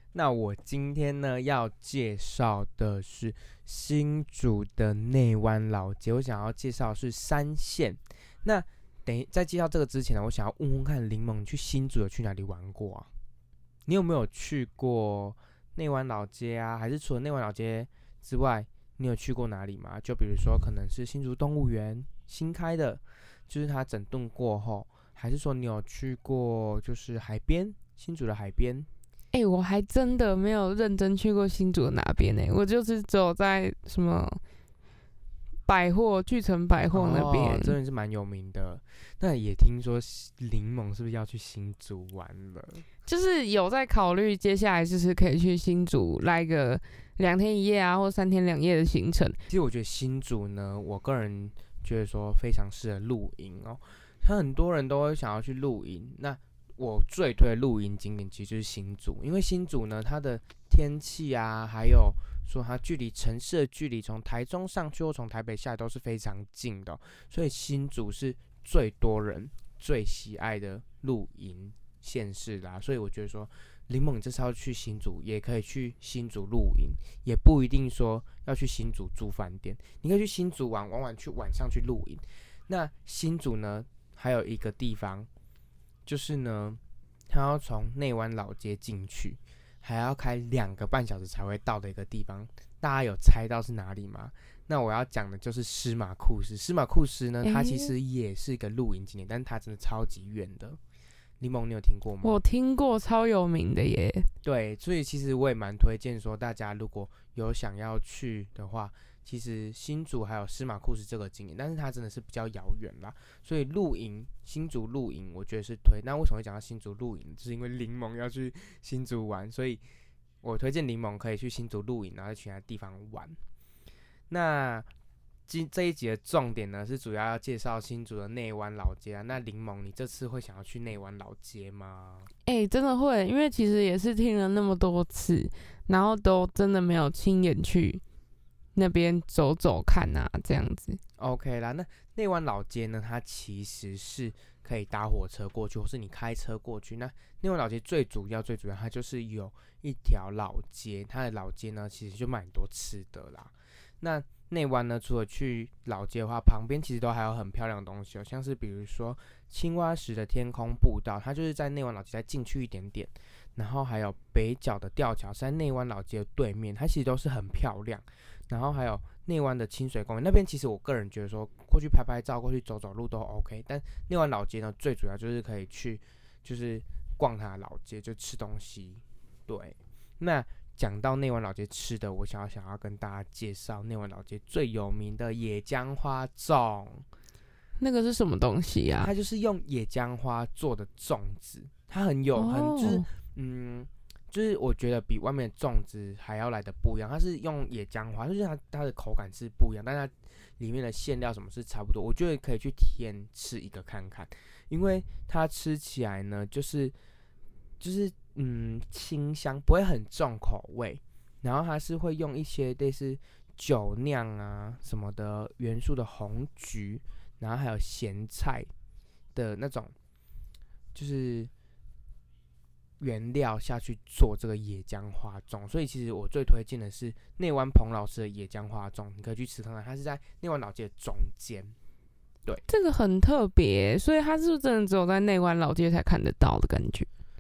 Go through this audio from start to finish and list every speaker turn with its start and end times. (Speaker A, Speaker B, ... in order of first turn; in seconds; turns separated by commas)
Speaker A: 0.1-13.1, Speaker A: 13.8-28.9, Speaker B: 29.3-34.4, Speaker B: 35.7-37.8, Speaker A: 36.9-42.8, Speaker B: 43.0-49.4, Speaker A: 49.5-85.3, Speaker A: 86.0-100.8, Speaker B: 97.4-97.9, Speaker A: 101.4-102.4, Speaker B: 102.2-104.3, Speaker A: 104.4-119.8, Speaker A: 120.4-123.3, Speaker A: 124.3-124.9, Speaker A: 125.5-132.3, Speaker B: 132.4-138.0, Speaker B: 138.7-141.0, Speaker A: 141.2-187.0, Speaker B: 187.8-189.1, Speaker A: 189.0-206.9, Speaker B: 192.3-193.1, Speaker A: 207.8-218.7, Speaker A: 219.3-219.9, Speaker A: 220.9-221.5, Speaker A: 223.0-231.7, Speaker B: 232.7-237.1